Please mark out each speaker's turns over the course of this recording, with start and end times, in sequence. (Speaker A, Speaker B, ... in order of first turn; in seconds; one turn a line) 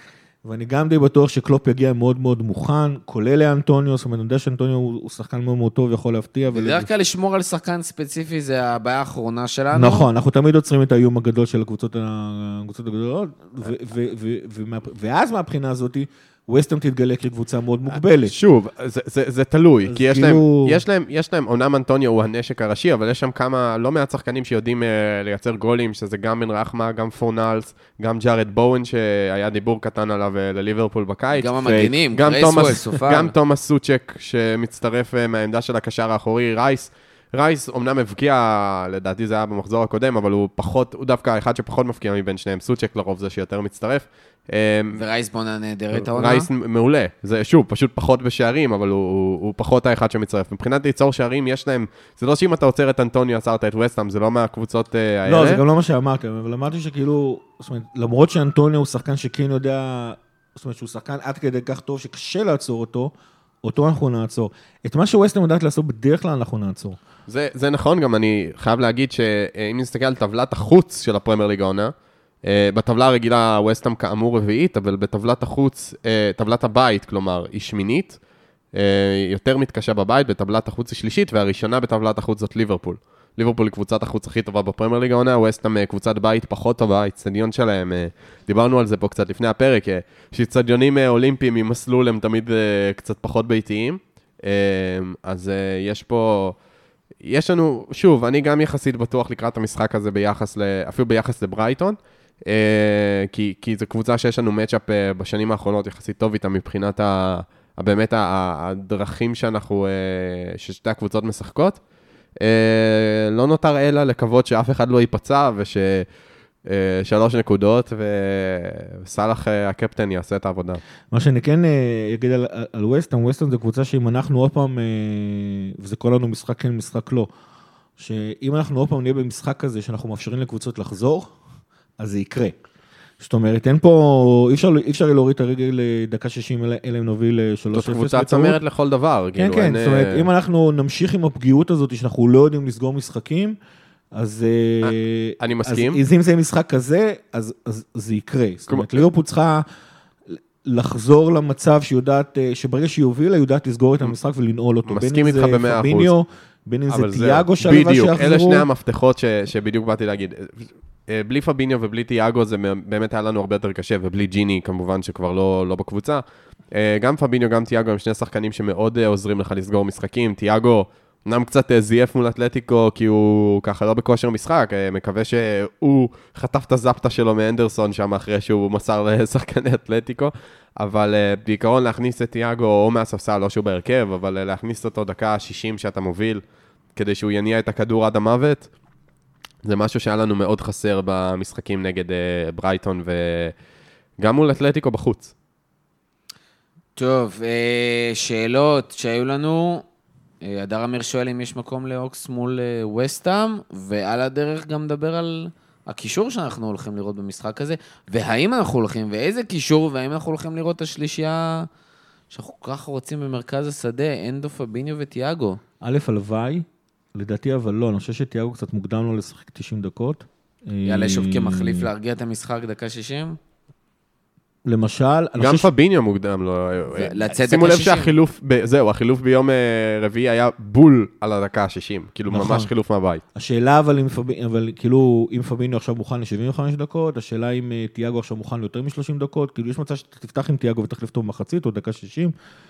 Speaker A: 0.4-6.9
Speaker B: 6.5-10.1
Speaker A: 9.7-18.4
Speaker C: 18.2-45.0
Speaker A: 19.9-20.8
Speaker B: 31.3-33.3
Speaker B: 44.9-46.5
Speaker C: 45.9-55.6
Speaker A: 55.3-63.1
Speaker A: 63.6-67.0
Speaker C: 67.3-71.9
Speaker C: 72.4-78.2
Speaker C: 78.7-96.6
Speaker C: 97.2-111.8
Speaker C: 112.4-116.1
Speaker C: 116.6-120.8
Speaker A: 121.1-127.3
Speaker A: 128.0-131.4
Speaker A: 132.0-132.6
Speaker A: 133.2-138.6
Speaker C: 137.7-140.3
Speaker A: 139.4-143.6
Speaker A: 144.1-149.7
Speaker C: 144.8-146.0
Speaker C: 148.7-149.1
Speaker A: 150.3-158.7
Speaker C: 154.9-156.1
Speaker C: 156.9-186.4
Speaker C: 186.9-188.7
Speaker C: 189.6-193.5
Speaker C: 194.2-195.3
Speaker B: 197.0-199.8
Speaker B: 200.4-211.7
Speaker B: 212.3-215.6
Speaker A: 215.8-221.9
Speaker B: 220.8-223.4
Speaker A: 224.7-225.7
Speaker C: 225.4-233.2
Speaker B: 226.9-228.1
Speaker A: 232.3-232.7
Speaker A: 233.3-242.3